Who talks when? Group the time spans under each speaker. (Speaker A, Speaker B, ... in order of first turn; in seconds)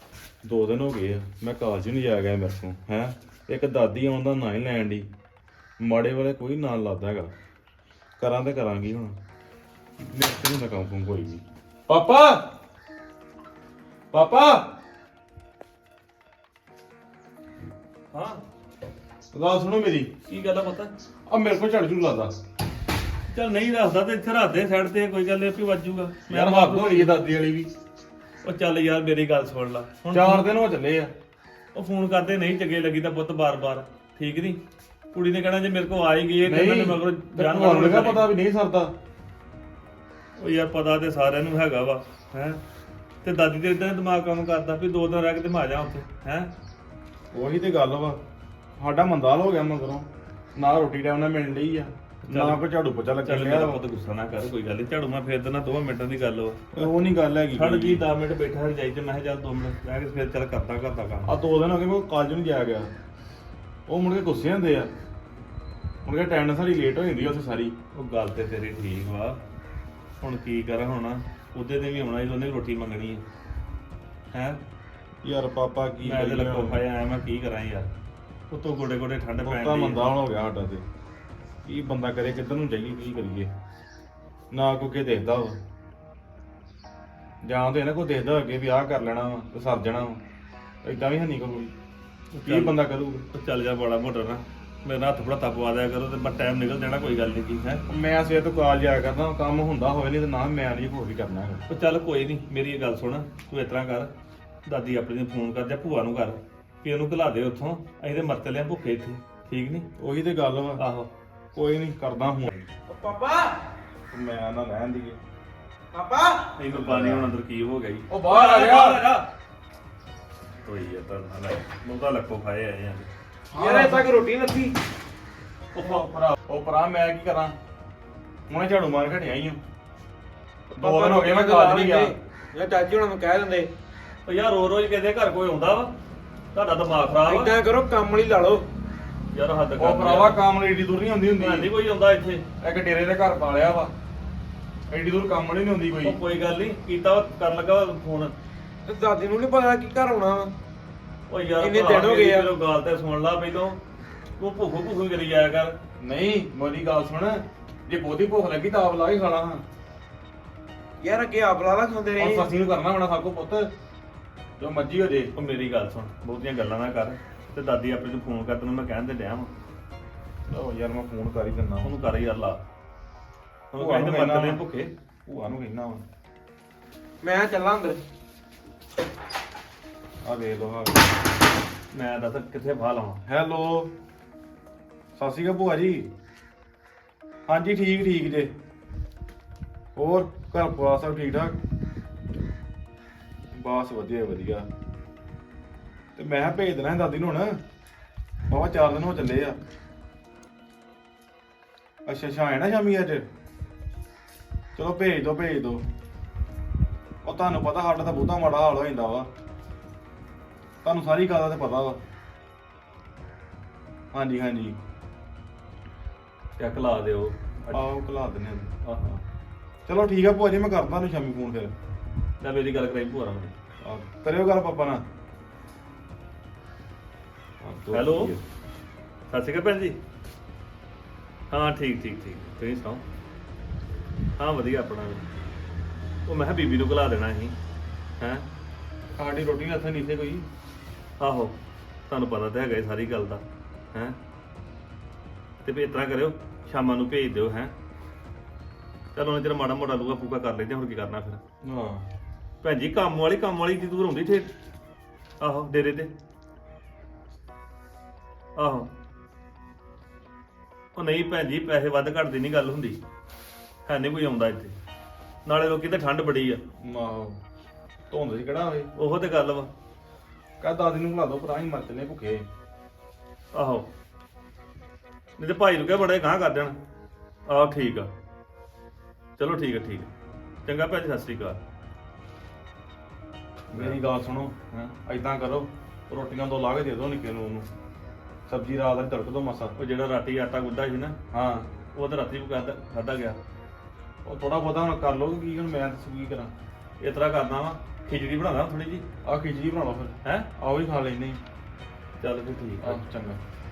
Speaker A: 0.4-5.1, 5.8-7.3, 8.2-9.2, 10.0-12.4, 14.1-14.7, 19.3-20.2, 21.3-22.4, 26.3-27.7, 30.1-31.1, 36.5-38.9, 47.3-48.2, 48.8-53.8, 56.7-58.0, 61.2-62.9, 63.9-64.9, 66.0-67.8, 75.2-76.8, 79.4-80.8, 81.7-83.5, 84.5-85.6, 87.4-90.2, 90.8-91.7, 92.5-93.3, 97.9-101.6, 110.0-110.8, 111.5-112.7, 114.1-115.2, 116.7-117.3, 118.1-119.0, 123.5-124.1, 125.7-127.6, 128.5-129.6, 130.7-132.1, 139.8-141.7, 142.6-143.9, 144.9-146.2, 156.0-159.7, 162.2-163.7, 164.6-165.3, 170.5-171.9, 173.8-174.6, 175.3-176.1, 180.2-181.0, 183.3-183.9, 185.2-186.1, 187.5-188.5, 189.9-191.6, 193.5-194.7, 196.2-197.6, 198.5-199.6, 202.1-203.3, 204.8-205.8, 207.2-209.3, 210.8-212.0, 214.1-214.8, 217.7-218.7, 219.9-221.7, 223.8-225.1, 227.6-228.4, 239.2-240.5, 251.6-252.1, 266.8-267.4, 268.1-268.9, 270.6-272.5, 283.7-287.7, 288.5-289.8, 291.3-291.7, 294.2-296.5, 299.2-301.4, 302.8-303.4
Speaker B: 18.1-18.4, 20.3-20.9, 23.3-27.1, 28.4-30.4, 31.7-34.6, 35.1-38.3, 40.4-42.6, 43.2-46.5, 52.3-52.6, 53.2-56.9, 57.5-61.3, 67.9-69.4, 70.2-73.2, 74.3-74.6, 76.0-77.9, 78.5-80.0, 92.3-92.8, 93.3-97.8, 101.7-104.1, 104.7-109.9, 110.8-111.1, 116.6-119.3, 120.6-123.1, 134.3-135.9, 136.5-137.5, 139.3-140.4, 141.4-142.5, 146.0-148.3, 151.3-153.8, 154.4-155.8, 165.3-169.5, 171.8-172.6, 173.7-174.9, 181.9-183.2, 216.6-217.8, 218.8-219.2, 222.4-223.5, 227.9-228.3, 229.3-230.0, 231.5-233.0, 234.4-235.2, 236.3-237.6, 238.2-238.5, 241.2-241.6, 242.1-244.2, 245.6-247.7, 249.1-251.4, 252.6-254.5, 255.4-256.1, 258.6-258.9, 261.0-263.0, 263.9-264.8, 265.4-266.6, 269.0-269.7, 273.5-273.9, 275.4-276.8, 277.5-278.1, 279.4-280.1, 280.7-281.6, 289.8-291.2, 291.9-293.4, 297.0-299.1, 300.2-300.5, 302.2-303.0
Speaker C: 112.9-113.6, 115.9-116.5, 123.5-124.8, 130.8-133.7, 137.2-138.7, 148.8-150.5, 151.6-152.5, 161.0-162.5, 177.2-178.0